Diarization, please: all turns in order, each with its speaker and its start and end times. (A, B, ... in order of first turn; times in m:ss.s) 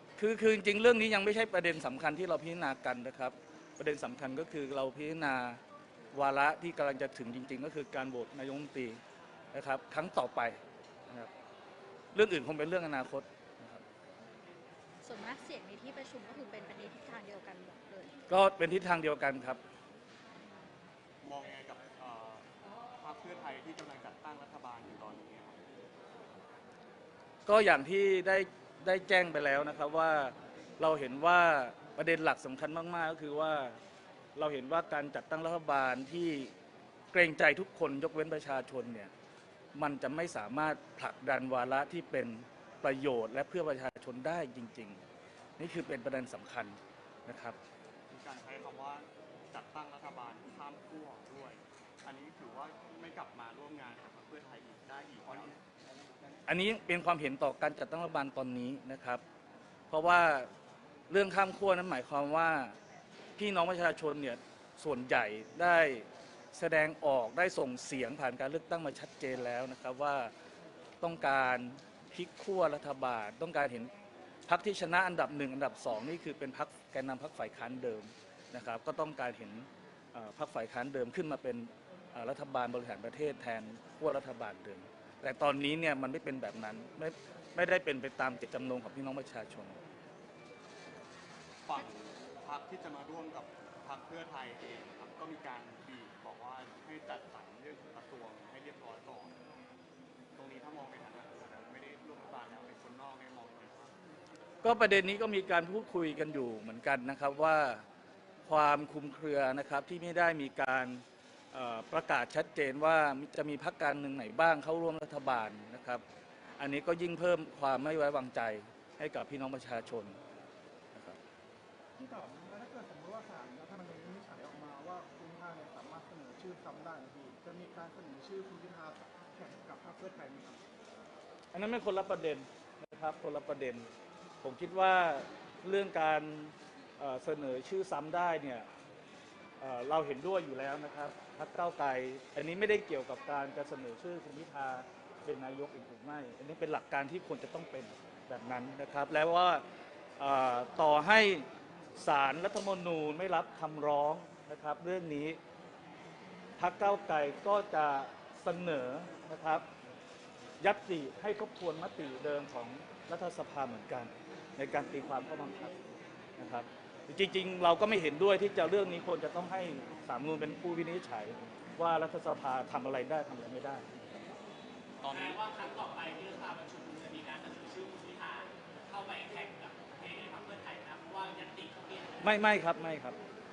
0:00.2-0:05.6 A
0:06.1-0:09.0 A
0:09.5-0:10.6 A
0:12.1-0:13.8 A
0:15.0-0:18.2 B
0:18.3-0:19.6 A
0:21.2-0:22.5 C
0:23.0-0:25.7 C
0:27.4-0:33.8 A
0:34.4-0:36.5 A
0:37.1-0:39.1 A
0:39.7-0:45.0 A
0:45.6-0:47.6 A
0:48.1-0:55.6 C
0:56.5-0:59.2 A
0:59.9-1:00.5 A
1:01.1-1:02.8 A
1:03.4-1:10.3 A
1:11.0-1:13.9 A
1:14.5-1:29.8 A
1:31.6-1:39.4 C
1:40.3-1:43.9 C
1:44.6-1:47.8 A
1:48.4-1:56.0 A
1:56.6-2:00.2 A
2:02.0-2:10.6 D
2:11.5-2:13.9 A
2:14.4-2:18.7 A
2:19.6-2:29.6 A
2:30.2-2:31.4 A
2:32.0-2:35.4 A
2:36.6-2:39.6 A
2:40.6-2:45.7 A
2:46.4-2:53.8 A
2:55.0-2:55.4 C
2:55.0-3:02.4 E
3:02.2-3:03.2 A